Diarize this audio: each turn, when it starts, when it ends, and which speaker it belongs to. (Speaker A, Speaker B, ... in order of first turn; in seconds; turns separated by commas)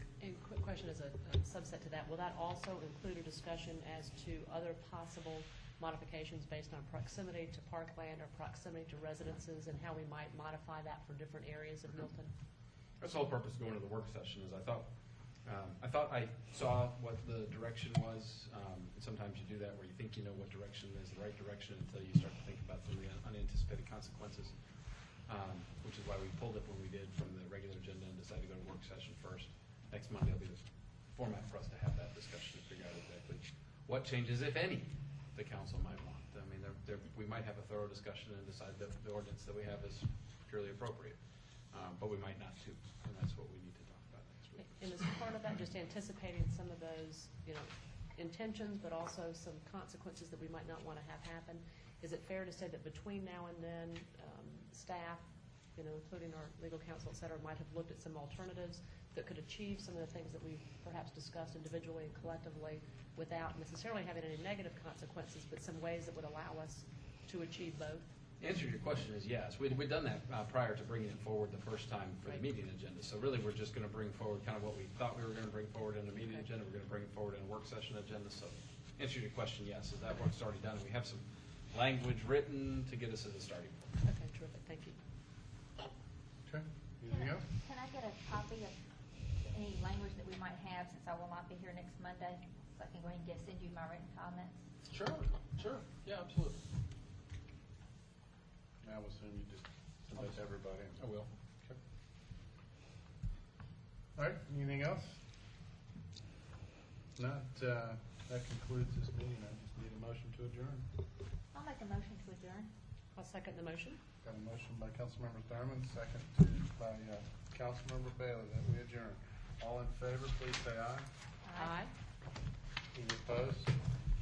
Speaker A: 0.2-12.3, Speaker B: 13.0-44.8, Speaker A: 44.6-68.1, Speaker B: 68.4-83.9, Speaker A: 84.0-85.0, Speaker C: 86.4-87.5, Speaker D: 87.1-88.8, Speaker D: 89.4-94.6, Speaker B: 94.9-96.6, Speaker C: 98.8-101.1, Speaker B: 100.1-101.3, Speaker C: 104.2-105.2, Speaker C: 107.2-110.8, Speaker D: 111.5-112.7, Speaker A: 113.1-114.0, Speaker C: 114.2-121.1, Speaker D: 121.4-121.8, Speaker A: 121.5-121.9, Speaker C: 122.9-123.8